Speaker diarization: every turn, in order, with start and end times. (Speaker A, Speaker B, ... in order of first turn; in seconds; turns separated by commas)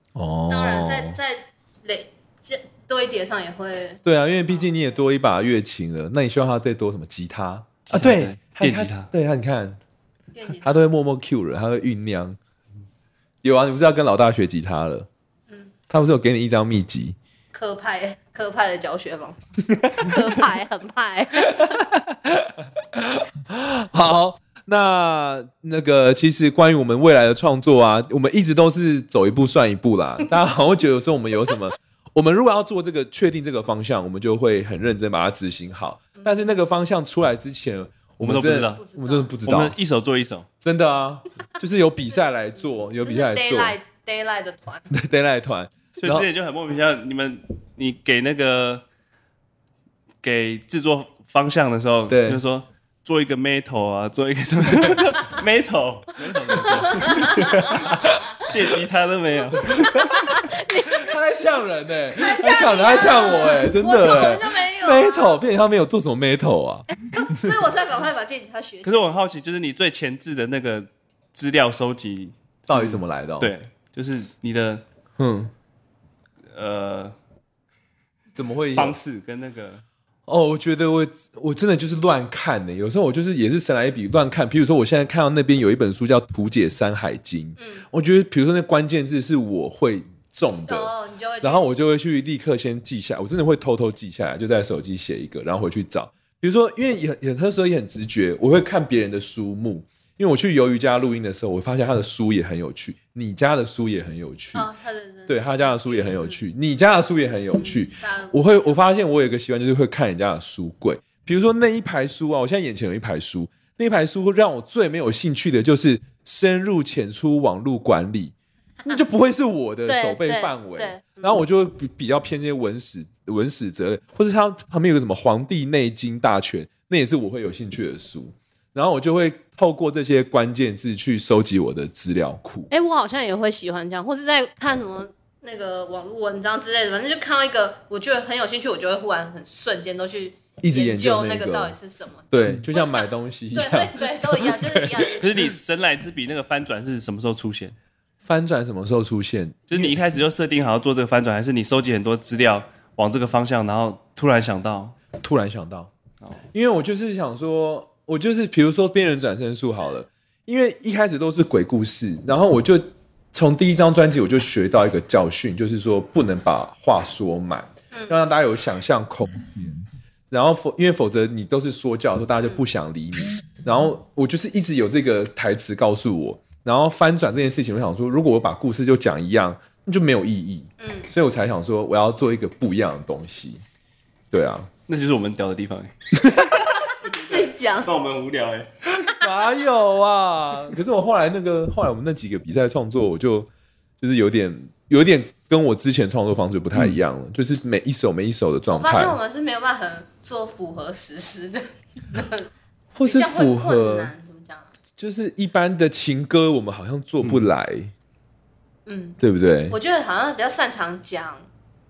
Speaker A: 0.1-1.2, Speaker B: 0.5-5.0, Speaker A: 4.0-9.8, Speaker C: 7.9-9.1, Speaker B: 10.3-10.8, Speaker A: 10.6-12.4, Speaker A: 13.4-15.1, Speaker A: 15.9-17.1, Speaker B: 17.5-21.8, Speaker A: 19.8-20.1, Speaker A: 21.4-39.7, Speaker B: 36.2-36.5, Speaker C: 38.2-38.8, Speaker B: 38.8-39.3, Speaker C: 39.4-40.5, Speaker A: 40.6-43.8, Speaker B: 43.0-44.9, Speaker A: 44.9-46.3, Speaker C: 46.0-48.8, Speaker C: 50.2-59.9, Speaker A: 52.1-52.4, Speaker A: 56.2-58.2, Speaker B: 56.6-58.7, Speaker B: 59.4-61.2, Speaker A: 59.6-67.5, Speaker B: 62.1-65.4, Speaker B: 67.0-69.1, Speaker C: 68.8-74.8, Speaker A: 72.7-73.5, Speaker A: 75.2-75.5, Speaker C: 76.5-77.1, Speaker A: 78.3-79.0, Speaker C: 78.7-79.8, Speaker A: 80.3-104.7, Speaker B: 87.6-87.8, Speaker B: 90.6-91.7, Speaker B: 104.5-106.4, Speaker A: 105.3-118.3, Speaker B: 107.5-108.8, Speaker A: 118.8-132.7, Speaker B: 119.9-121.4, Speaker B: 132.7-145.4, Speaker A: 140.6-141.8, Speaker A: 142.3-145.5, Speaker C: 145.2-147.8, Speaker A: 148.2-150.0, Speaker C: 149.7-154.9, Speaker A: 155.2-155.9, Speaker A: 156.5-183.6, Speaker B: 180.8-181.1, Speaker A: 184.3-184.7, Speaker C: 184.9-185.9, Speaker A: 186.2-186.5, Speaker C: 187.0-189.1, Speaker B: 187.2-187.9, Speaker A: 189.0-193.5, Speaker A: 194.0-199.2, Speaker C: 196.7-197.0, Speaker B: 198.7-202.5, Speaker A: 202.9-204.1, Speaker B: 203.0-204.7, Speaker A: 205.0-207.9, Speaker B: 208.8-209.2, Speaker A: 209.2-209.8, Speaker B: 209.7-211.5